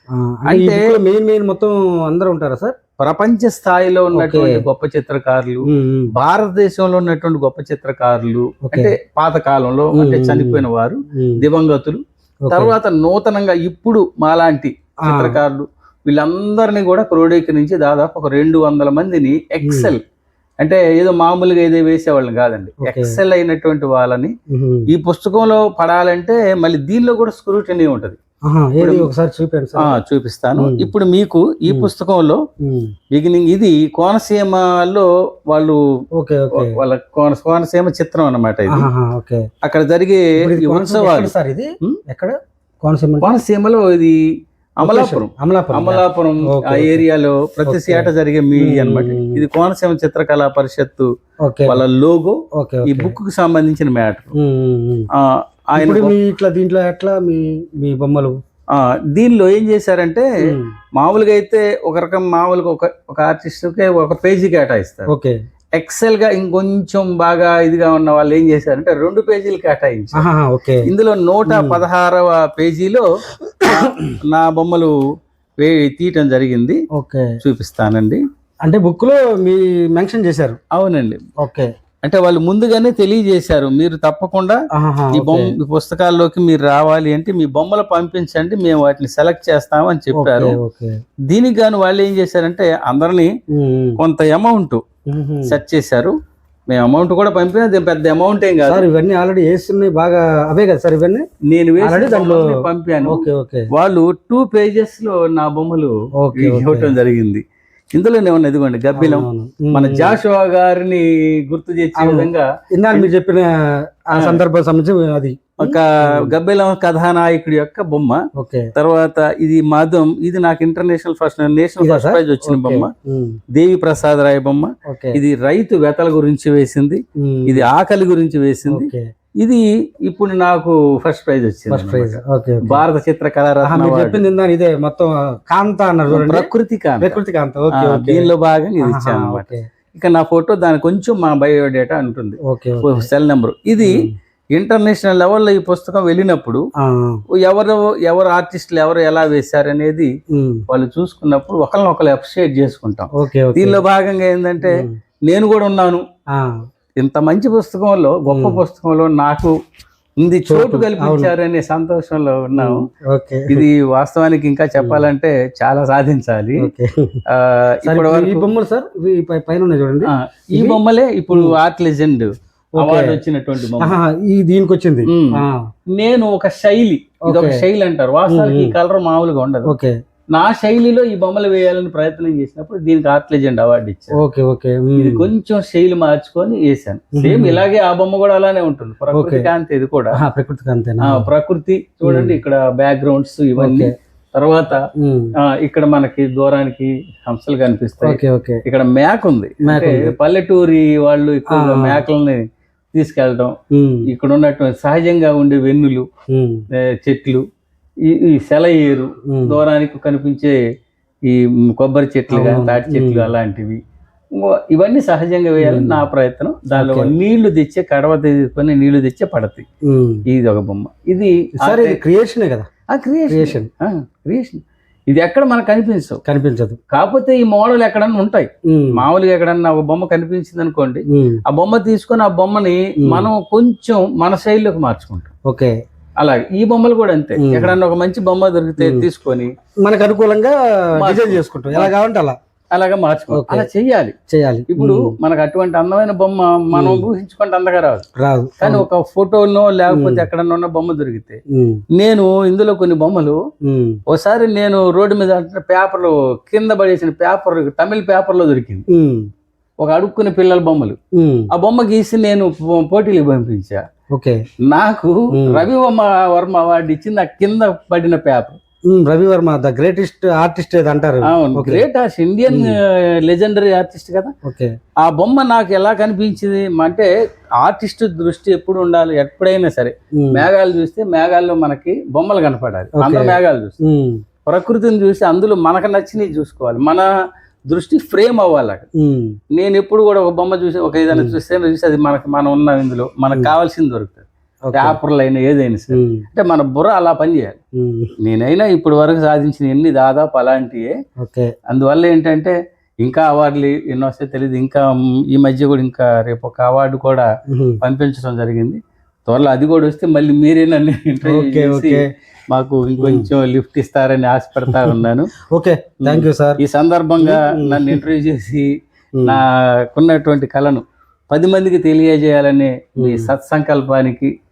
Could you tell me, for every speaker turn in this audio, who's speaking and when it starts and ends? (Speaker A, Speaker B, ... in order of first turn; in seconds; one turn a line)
Speaker A: 0.1-2.8
Speaker B: 0.5-0.9
Speaker B: 3.0-20.0
Speaker A: 4.1-4.6
Speaker A: 5.7-6.1
Speaker A: 8.7-8.9
Speaker A: 9.9-11.4
Speaker A: 12.4-12.8
Speaker A: 15.0-15.4
Speaker A: 19.6-19.9
Speaker B: 20.6-24.3
Speaker A: 22.8-23.2
Speaker A: 24.5-24.9
Speaker B: 24.9-28.2
Speaker A: 28.4-30.0
Speaker B: 28.8-29.1
Speaker B: 29.8-32.4
Speaker A: 30.6-30.9
Speaker A: 32.6-32.9
Speaker B: 33.1-35.8
Speaker A: 36.2-36.8
Speaker B: 36.5-38.9
Speaker A: 38.7-39.4
Speaker B: 39.6-41.3
Speaker A: 40.4-43.3
Speaker B: 43.2-44.2
Speaker B: 44.8-51.1
Speaker A: 44.8-47.0
Speaker A: 47.6-49.4
Speaker A: 51.4-51.8
Speaker B: 51.6-54.3
Speaker A: 52.6-53.2
Speaker A: 54.4-55.1
Speaker B: 55.1-56.1
Speaker A: 55.8-58.4
Speaker B: 58.7-60.3
Speaker A: 60.5-60.7
Speaker B: 61.0-65.1
Speaker A: 65.1-65.3
Speaker B: 65.8-70.2
Speaker A: 70.2-70.9
Speaker B: 70.8-73.0
Speaker A: 71.5-71.8
Speaker A: 73.6-74.1
Speaker B: 73.6-74.9
Speaker B: 75.6-76.8
Speaker A: 76.9-77.3
Speaker B: 77.4-78.2
Speaker A: 78.6-80.6
Speaker B: 80.7-81.2
Speaker A: 81.4-81.7
Speaker B: 82.0-84.6
Speaker A: 84.8-85.5
Speaker B: 85.1-90.6
Speaker A: 90.1-90.9
Speaker B: 91.3-93.3
Speaker A: 93.5-94.0
Speaker B: 94.0-94.8
Speaker A: 95.1-95.6
Speaker B: 95.5-96.1
Speaker B: 96.7-98.8
Speaker A: 98.7-101.2
Speaker B: 101.5-113.1
Speaker A: 101.8-103.7
Speaker A: 106.2-107.0
Speaker A: 109.0-110.2
Speaker A: 112.0-113.5
Speaker A: 114.1-116.3
Speaker B: 114.1-114.4
Speaker B: 115.6-118.2
Speaker A: 118.3-118.7
Speaker B: 118.8-122.9
Speaker A: 121.8-123.4
Speaker B: 123.5-128.9
Speaker A: 124.9-125.2
Speaker A: 127.2-127.7
Speaker A: 128.7-129.1
Speaker B: 129.4-134.2
Speaker A: 131.7-132.8
Speaker A: 133.6-136.5
Speaker B: 136.1-137.2
Speaker A: 137.0-138.3
Speaker B: 137.7-144.0
Speaker A: 138.8-139.6
Speaker A: 142.5-143.1
Speaker A: 143.8-144.1
Speaker B: 144.5-146.6
Speaker A: 146.8-147.2
Speaker B: 147.4-150.1
Speaker A: 150.3-150.6
Speaker B: 150.7-156.0
Speaker A: 153.2-153.8
Speaker A: 154.6-154.9
Speaker B: 157.0-159.5
Speaker A: 158.3-158.6
Speaker B: 160.2-162.8
Speaker A: 160.5-161.3
Speaker A: 162.6-163.7
Speaker B: 163.5-166.7
Speaker A: 164.8-165.0
Speaker A: 166.6-167.2
Speaker B: 167.3-168.4
Speaker A: 167.8-170.8
Speaker B: 170.1-173.9
Speaker A: 172.8-175.7
Speaker B: 175.1-179.7
Speaker A: 177.3-177.6
Speaker A: 178.3-178.8
Speaker A: 179.7-179.9
Speaker B: 180.3-184.1
Speaker A: 184.2-185.3
Speaker B: 185.0-190.2
Speaker A: 187.2-187.6
Speaker A: 189.1-189.5
Speaker A: 190.2-191.3
Speaker B: 191.0-194.8
Speaker A: 192.0-192.4
Speaker A: 193.6-193.9
Speaker A: 195.0-195.3
Speaker B: 195.4-202.4
Speaker A: 198.0-198.6
Speaker A: 199.6-200.1
Speaker A: 201.5-202.0
Speaker B: 202.9-203.5
Speaker A: 203.7-204.1
Speaker B: 204.1-206.1
Speaker A: 206.3-206.6
Speaker B: 207.0-207.4
Speaker B: 208.1-210.6
Speaker A: 209.3-209.6
Speaker B: 211.3-213.8
Speaker A: 212.3-213.3
Speaker B: 214.4-219.6
Speaker A: 215.6-216.0
Speaker A: 216.7-217.1
Speaker A: 219.9-220.2
Speaker B: 220.3-222.0
Speaker A: 221.6-222.7
Speaker B: 222.9-226.2
Speaker A: 223.3-223.7
Speaker A: 226.2-226.8
Speaker B: 226.9-235.3
Speaker A: 228.7-229.1
Speaker A: 231.1-231.4
Speaker A: 233.0-233.3
Speaker A: 235.4-235.7
Speaker B: 236.2-239.5
Speaker A: 237.4-237.8
Speaker A: 238.8-239.1
Speaker A: 239.8-242.3
Speaker B: 241.0-241.9
Speaker B: 242.7-244.1
Speaker A: 243.3-243.7
Speaker A: 244.3-245.1
Speaker B: 244.7-248.0
Speaker A: 246.7-247.1
Speaker A: 248.2-248.9
Speaker B: 248.6-251.4
Speaker A: 249.9-250.3
Speaker A: 251.5-251.8
Speaker B: 251.9-253.4
Speaker A: 253.6-254.0
Speaker B: 254.1-258.8
Speaker A: 258.9-259.3
Speaker B: 259.8-261.0
Speaker A: 261.2-261.5
Speaker B: 261.5-263.8
Speaker A: 264.1-264.4
Speaker B: 264.7-268.6
Speaker A: 265.3-265.7
Speaker A: 268.9-271.9
Speaker B: 271.3-274.3
Speaker A: 272.5-272.7
Speaker A: 274.4-274.7
Speaker B: 275.0-283.8
Speaker A: 280.2-280.5
Speaker A: 283.0-284.2
Speaker B: 284.4-287.1
Speaker B: 287.7-288.9
Speaker A: 289.0-289.4
Speaker B: 289.5-297.6
Speaker A: 291.1-291.4
Speaker A: 294.7-295.0
Speaker A: 295.9-296.2
Speaker A: 297.8-298.1
Speaker B: 298.2-300.9
Speaker A: 301.2-301.5
Speaker B: 301.7-307.2
Speaker A: 307.5-307.8
Speaker B: 307.8-315.3
Speaker A: 311.2-312.1
Speaker A: 312.9-313.3
Speaker A: 314.7-316.6
Speaker B: 316.0-318.7
Speaker A: 317.2-318.0
Speaker A: 319.2-319.4
Speaker B: 319.2-324.3
Speaker A: 323.0-323.3